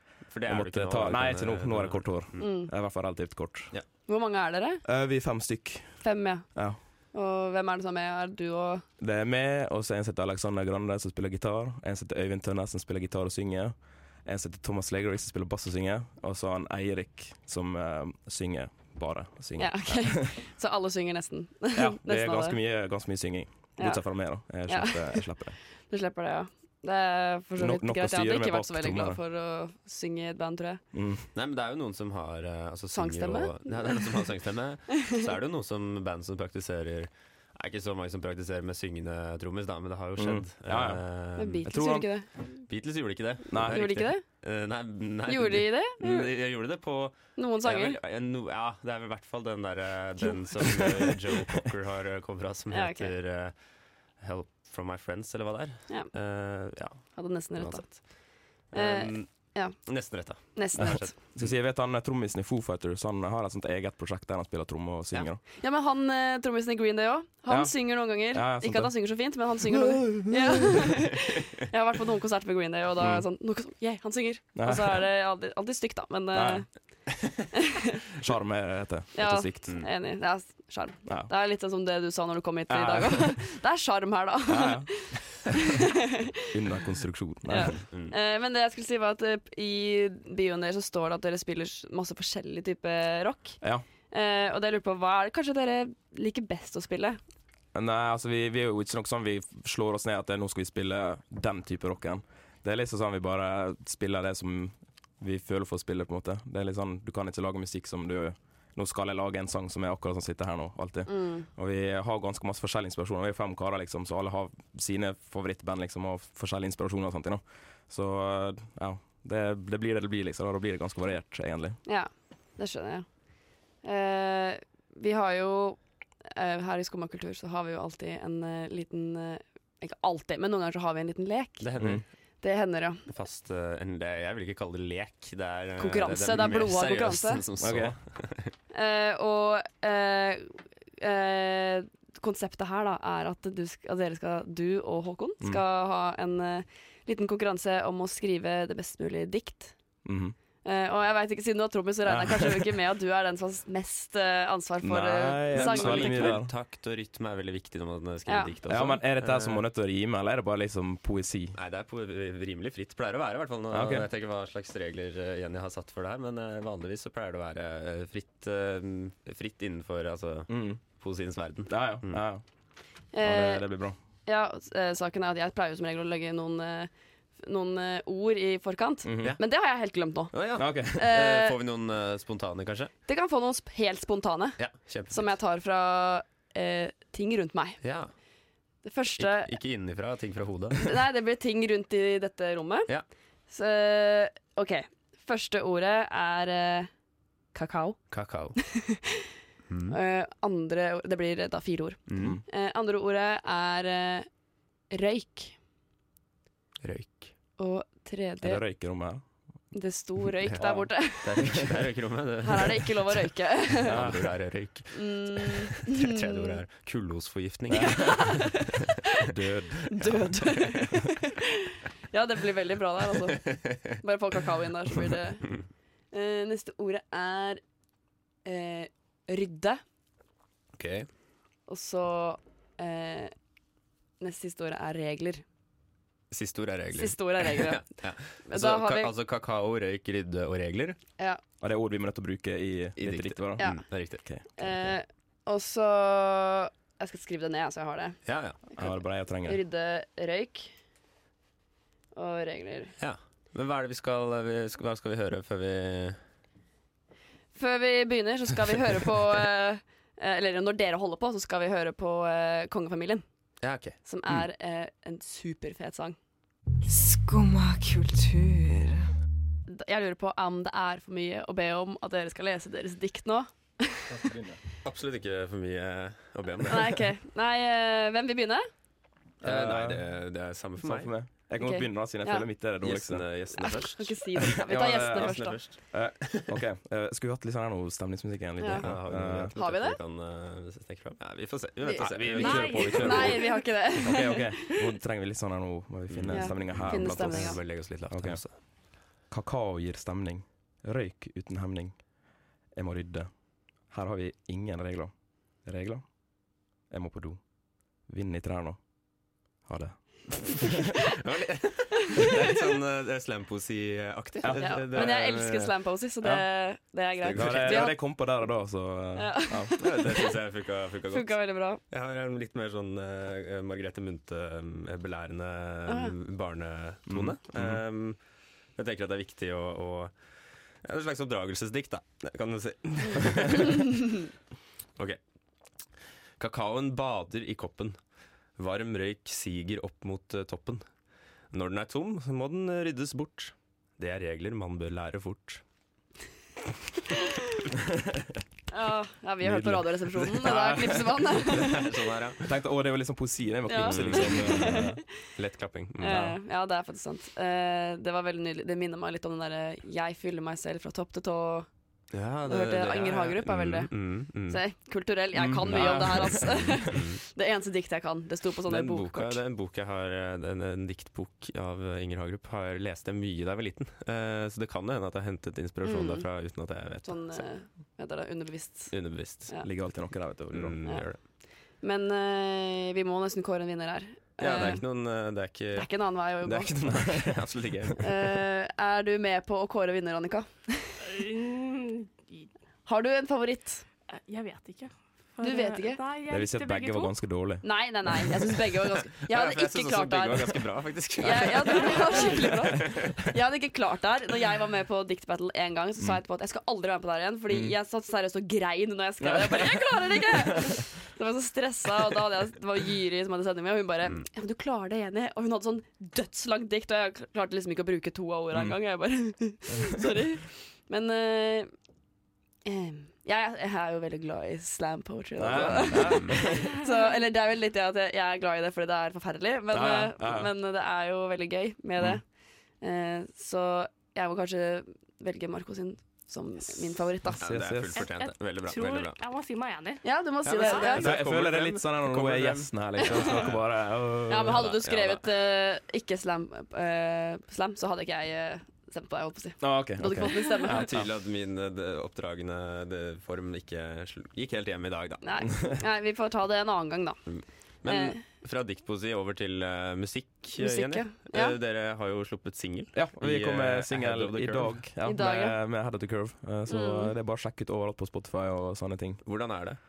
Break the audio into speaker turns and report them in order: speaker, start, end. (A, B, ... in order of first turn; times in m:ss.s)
0:00.3-0:02.4 A
0:00.4-0:03.7 B
0:02.4-0:02.7 C
0:04.1-0:04.8 C
0:04.8-0:06.8 B
0:06.0-0:08.8 C
0:09.0-0:20.4 B
0:19.6-0:22.6 C
0:21.7-0:25.6 B
0:23.8-0:25.3 C
0:25.9-0:30.8 C
0:27.6-0:29.2 B
0:30.9-0:31.3 B
0:31.4-0:41.7 A
0:32.9-0:34.2 C
0:40.2-0:41.0 B
0:41.4-0:42.3 C
0:41.7-0:42.1 B
0:42.7-0:53.5 A
0:43.5-0:44.1 B
0:43.7-0:44.2 C
0:45.3-0:46.3 C
0:47.4-0:48.0 C
0:52.7-0:53.1 C
0:54.2-0:59.3 A
0:57.2-0:58.0 C
0:58.7-1:01.1 C
0:59.8-1:01.5 A
1:01.4-1:05.4 B
1:05.6-1:16.7 C
1:07.5-1:10.9 B
1:13.0-1:13.2 A
1:14.6-1:15.0 B
1:16.3-1:16.7 B
1:18.2-1:19.8 B
1:19.2-1:26.2 C
1:21.1-1:21.3 B
1:22.7-1:23.4 B
1:24.5-1:25.6 B
1:26.5-1:27.8 B
1:27.5-1:37.2 C
1:27.9-1:28.2 A
1:37.7-2:01.8 B
1:51.1-1:51.5 C
2:01.9-2:03.1 C
2:03.8-2:11.6 C
2:11.6-2:12.1 A
2:11.8-2:12.0 B
2:12.4-2:13.0 C
2:13.1-2:18.5 A
2:15.8-2:17.4 C
2:17.6-2:18.0 B
2:18.7-2:29.8 C
2:30.0-2:30.4 B
2:30.6-2:36.4 C
2:32.0-2:32.7 B
2:34.8-2:36.5 B
2:35.5-2:39.6 A
2:38.7-2:41.6 B
2:41.6-2:52.2 A
2:43.7-2:44.1 B
2:50.5-2:50.8 B
2:51.7-2:52.4 B
2:53.1-2:53.7 C
2:53.2-2:54.0 B
2:54.2-3:01.6 C
2:59.0-2:59.4 B
3:00.3-3:02.9 A
3:00.6-3:01.0 B
3:03.1-3:07.8 C
3:04.6-3:05.3 A
3:07.8-3:08.1 A
3:08.8-3:09.5 C
3:09.2-3:10.9 A
3:10.8-3:12.9 C
3:13.5-3:16.9 C
3:17.5-3:18.0 C
3:18.1-3:18.6 A
3:18.6-3:19.2 C
3:19.7-3:20.0 A
3:19.9-3:24.3 C
3:22.1-3:22.4 A
3:22.2-3:22.4 B
3:24.9-3:25.6 C
3:26.8-3:27.4 A
3:27.6-3:28.6 C
3:28.4-3:29.2 B
3:29.7-3:31.6 C
3:30.5-3:38.4 A
3:31.4-3:31.7 B
3:32.4-3:34.0 C
3:33.9-3:34.4 B
3:34.9-3:36.6 C
3:37.7-3:38.6 B
3:37.7-3:38.9 C
3:39.3-3:40.3 B
3:39.9-3:41.5 C
3:42.1-3:45.6 C
3:43.5-3:43.9 A
3:46.1-3:47.6 C
3:48.4-3:49.8 C
3:50.8-3:51.1 A
3:51.7-3:53.3 C
3:54.2-3:55.4 C
3:56.3-4:01.0 A
3:57.0-3:57.8 C
3:58.5-3:59.1 C
4:01.6-4:04.8 B
4:03.0-4:04.2 A
4:04.6-4:10.7 C
4:08.3-4:08.6 A
4:08.8-4:09.6 B
4:12.2-4:13.0 C
4:13.0-4:16.2 A
4:17.6-4:23.2 C
4:23.6-4:24.0 A
4:24.0-4:26.2 C
4:26.8-4:29.1 D
4:29.7-4:34.1 C
4:34.1-4:34.6 B
4:34.8-4:37.0 A
4:36.7-4:38.6 C
4:39.4-4:40.1 B
4:39.4-4:41.1 A
4:40.8-4:43.3 B
4:41.6-4:42.5 C
4:42.8-4:46.6 A
4:43.6-4:45.6 C
4:44.6-4:49.5 B
4:48.6-4:48.9 C
4:48.8-4:53.4 A
4:49.6-4:50.0 C
4:51.8-4:54.8 C
4:52.0-4:58.6 B
4:52.4-4:53.2 E
4:56.1-4:58.6 A
4:56.3-4:57.6 C
4:59.1-5:02.1 B
5:02.8-5:06.2 B
5:06.9-5:07.4 B
5:08.1-5:08.9 B
5:09.6-5:10.7 B
5:11.2-5:15.7 A
5:14.4-5:15.4 B
5:14.6-5:18.0 C
5:16.2-5:16.5 B
5:17.2-5:17.9 A
5:17.3-5:19.8 B
5:19.2-5:20.4 C
5:19.8-5:21.4 A
5:21.1-5:21.8 C
5:21.9-5:28.2 A
5:25.9-5:26.1 C
5:27.1-5:27.8 B
5:28.8-5:30.1 A
5:30.8-5:34.0 A
5:36.4-5:38.0 A
5:38.6-5:40.8 A
5:41.5-5:45.6 A
5:48.7-5:51.9 C
5:49.4-5:49.8 B
5:50.2-5:52.5 A
5:50.4-5:51.0 B
5:52.4-5:55.0 B
5:53.7-5:55.0 C
5:53.8-5:54.8 A
5:55.4-5:56.4 A
5:56.0-6:01.7 C
6:02.1-6:04.6 A
6:02.5-6:09.4 C
6:05.4-6:06.8 B
6:05.6-6:07.2 A
6:08.7-6:17.4 A
6:15.8-6:16.3 C
6:17.0-6:19.7 C
6:18.9-6:19.5 A
6:19.6-6:20.8 B
6:20.5-6:21.2 A
6:21.8-6:24.8 C
6:24.4-6:28.4 A
6:25.7-6:26.8 C
6:26.9-6:27.3 B
6:28.0-6:31.0 C
6:31.1-6:32.5 E
6:32.9-6:33.8 C
6:34.1-6:37.1 E
6:35.4-6:36.0 C
6:36.3-6:38.2 B
6:37.6-6:40.6 C
6:39.3-6:43.2 A
6:41.2-7:01.7 C
6:47.5-6:47.8 B
6:49.2-6:50.0 B
6:58.5-6:58.8 B
7:02.7-7:12.2 C
7:05.4-7:06.7 B
7:05.6-7:06.4 A
7:09.7-7:10.5 B
7:12.8-7:17.4 C
7:17.3-7:18.1 B
7:17.4-7:19.2 A
7:18.0-7:20.1 E
7:20.0-7:21.1 C
7:20.4-7:23.6 A
7:20.7-7:21.0 E
7:20.9-7:24.6 B
7:24.3-7:30.9 C
7:24.5-7:25.3 A
7:29.6-7:31.1 B
7:30.7-7:35.3 A
7:35.2-7:37.2 C
7:37.3-7:44.8 A
7:37.9-7:38.2 C
7:40.6-7:41.6 C
7:42.9-7:49.2 B
7:45.0-7:45.6 C
7:46.7-7:47.1 C
7:49.2-7:49.8 A